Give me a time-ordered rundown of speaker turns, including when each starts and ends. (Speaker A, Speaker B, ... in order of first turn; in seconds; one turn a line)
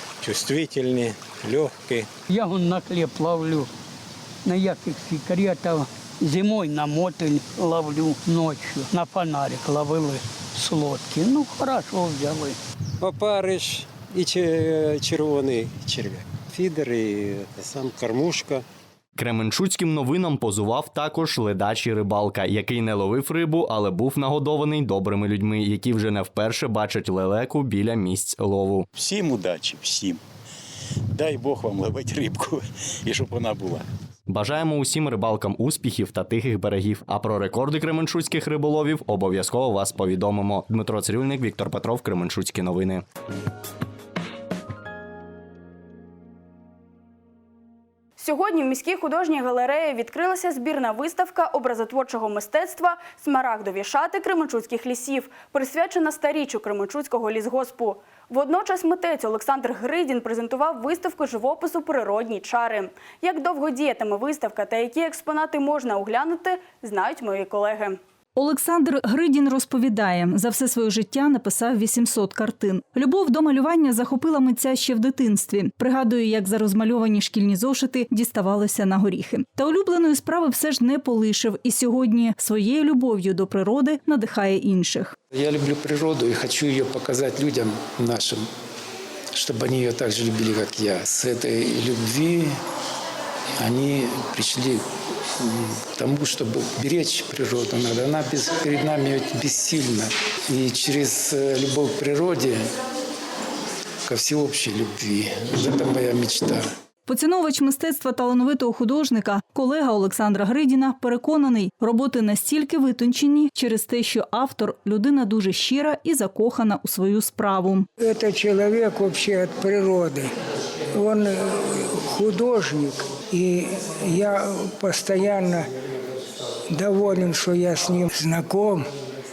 Speaker A: 0.2-2.1
Speaker B: 2.3-3.7
Speaker B: 4.4-12.6
Speaker C: 13.0-18.6
Speaker D: 19.1-28.9
Speaker A: 28.9-30.2
Speaker A: 31.1-33.9
Speaker D: 34.3-43.0
Speaker E: 48.2-68.0
Speaker F: 68.3-85.1
Speaker G: 85.3-88.5
Speaker G: 89.3-92.6
Speaker G: 93.6-94.8
Speaker G: 95.4-102.7
Speaker G: 104.0-106.7
Speaker F: 107.0-117.9
Speaker H: 118.0-120.3
Speaker H: 120.9-125.7
Speaker H: 126.7-128.8